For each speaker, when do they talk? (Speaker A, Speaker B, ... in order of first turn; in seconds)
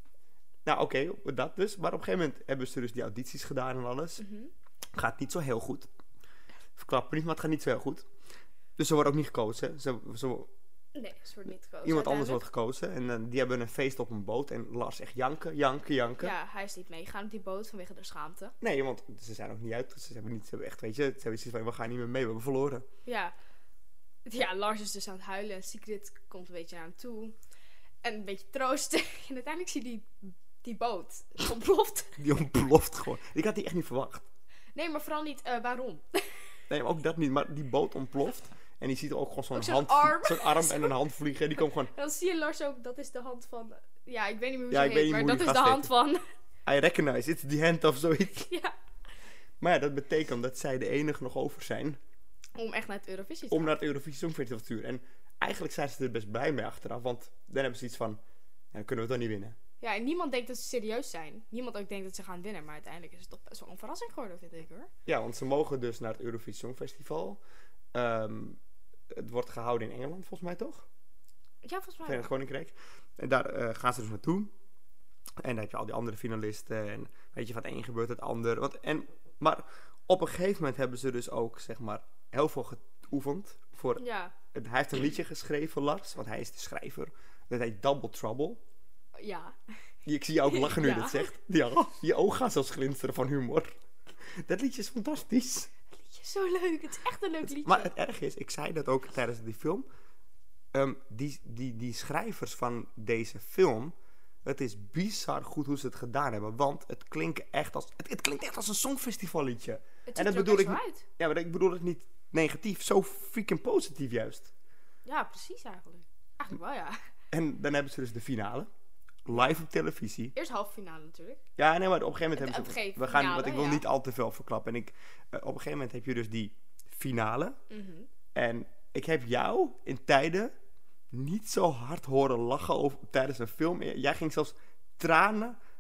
Speaker A: 0.7-4.2, 4.9-5.9, 6.8-8.1, 8.8-10.5, 11.8-16.3, 18.6-22.9, 32.2-34.3, 36.7-41.9, 44.7-45.9, 46.7-48.5, 49.6-52.0, 53.5-58.2, 58.7-59.6, 65.1-67.4, 67.9-68.6, 69.1-70.9, 72.1-74.5, 75.4-88.6, 90.1-93.7, 94.3-95.7, 97.4-99.9, 100.7-103.9, 104.5-114.5, 117.3-118.7, 119.3-120.3, 121.6-127.6, 128.3-130.5, 131.1-135.6
Speaker B: 4.2-4.5, 10.9-12.4, 16.2-18.6, 23.1-23.4, 24.3-27.4, 28.0-32.2, 34.8-36.5, 39.5-41.0, 41.9-46.2, 48.5-48.7, 52.5-53.8, 59.8-64.9, 71.6-72.3, 84.0-84.3, 89.2-89.6, 90.4-91.3, 95.9-97.9, 110.1-111.1, 115.0-117.0, 120.3-121.4, 122.3-123.9, 127.7-128.1